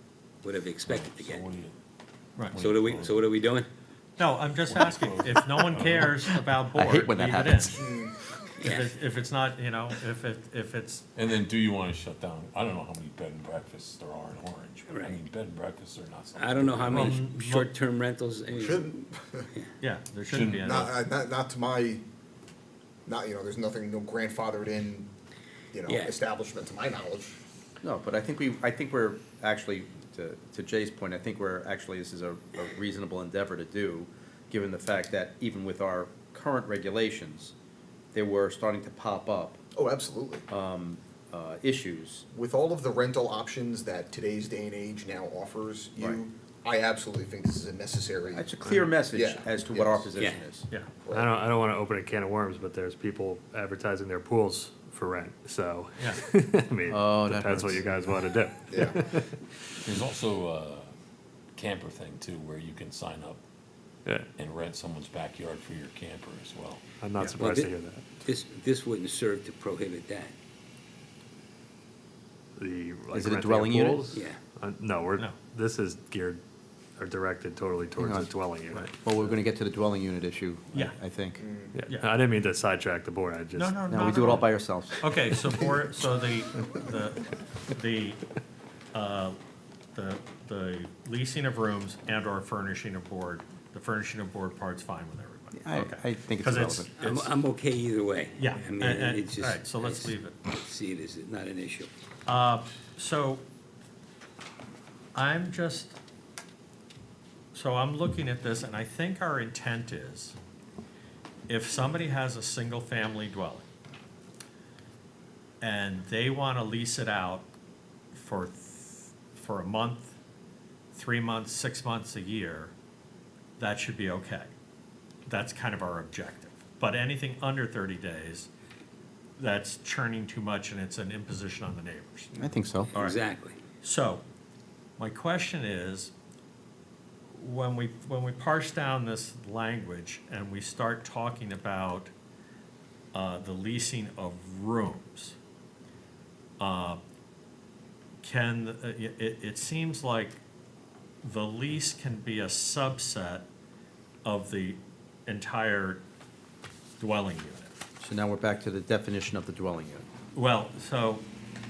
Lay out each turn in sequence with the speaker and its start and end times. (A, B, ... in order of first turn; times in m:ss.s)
0:00.4-0:01.5 A
0:00.8-0:01.8 B
0:02.5-0:03.3 B
0:02.5-0:03.7 A
0:04.2-0:07.8 C
0:04.5-0:06.4 B
0:06.7-0:07.8 D
0:07.8-0:08.1 E
0:08.6-0:08.9 A
0:08.7-0:11.0 C
0:11.1-0:17.2 B
0:14.9-0:15.2 A
0:16.4-0:19.7 A
0:16.9-0:17.7 C
0:18.5-0:19.5 E
0:19.8-0:20.7 C
0:20.3-0:21.0 B
0:20.5-0:22.0 E
0:23.0-0:25.1 E
0:25.7-0:27.4 E
0:25.9-0:26.2 A
0:27.8-0:37.5 D
0:38.1-0:39.6 D
0:39.7-0:40.4 E
0:40.5-0:42.2 D
0:42.3-0:48.5 E
0:48.3-0:50.7 D
0:48.6-0:48.9 F
0:49.1-0:50.1 E
0:50.2-0:50.4 A
0:51.0-0:51.3 E
0:51.1-0:59.6 F
0:56.9-0:58.1 D
0:58.7-0:59.0 E
0:59.8-1:00.9 B
1:01.6-1:03.4 B
1:04.4-1:07.0 B
1:07.0-1:08.0 F
1:07.3-1:10.3 A
1:12.6-1:16.4 F
1:13.1-1:14.0 D
1:14.1-1:14.4 A
1:17.0-1:18.9 F
1:18.0-1:18.3 D
1:19.0-1:21.4 D
1:21.4-1:21.8 E
1:21.8-1:24.5 F
1:23.6-1:24.3 C
1:23.9-1:25.2 D
1:25.0-1:28.2 C
1:28.9-1:29.4 C
1:29.9-1:37.3 C
1:35.5-1:36.9 D
1:37.0-1:41.9 A
1:38.3-1:40.4 C
1:42.3-1:43.4 C
1:45.1-1:46.0 C
1:47.5-1:50.4 C
1:51.5-1:53.7 C
1:55.6-1:57.5 C
1:58.1-2:00.2 C
2:00.9-2:02.7 C
2:03.6-2:04.5 C
2:05.2-2:08.5 C
2:09.4-2:12.3 C
2:12.3-2:12.9 D
2:12.9-2:13.6 A
2:13.8-2:14.2 C
2:15.0-2:16.1 C
2:17.3-2:22.1 C
2:23.1-2:25.4 C
2:26.6-2:27.0 C
2:28.2-2:30.4 C
2:31.2-2:33.5 C
2:34.2-2:36.0 C
2:37.0-2:37.7 C
2:38.0-2:40.1 D
2:40.3-2:41.2 C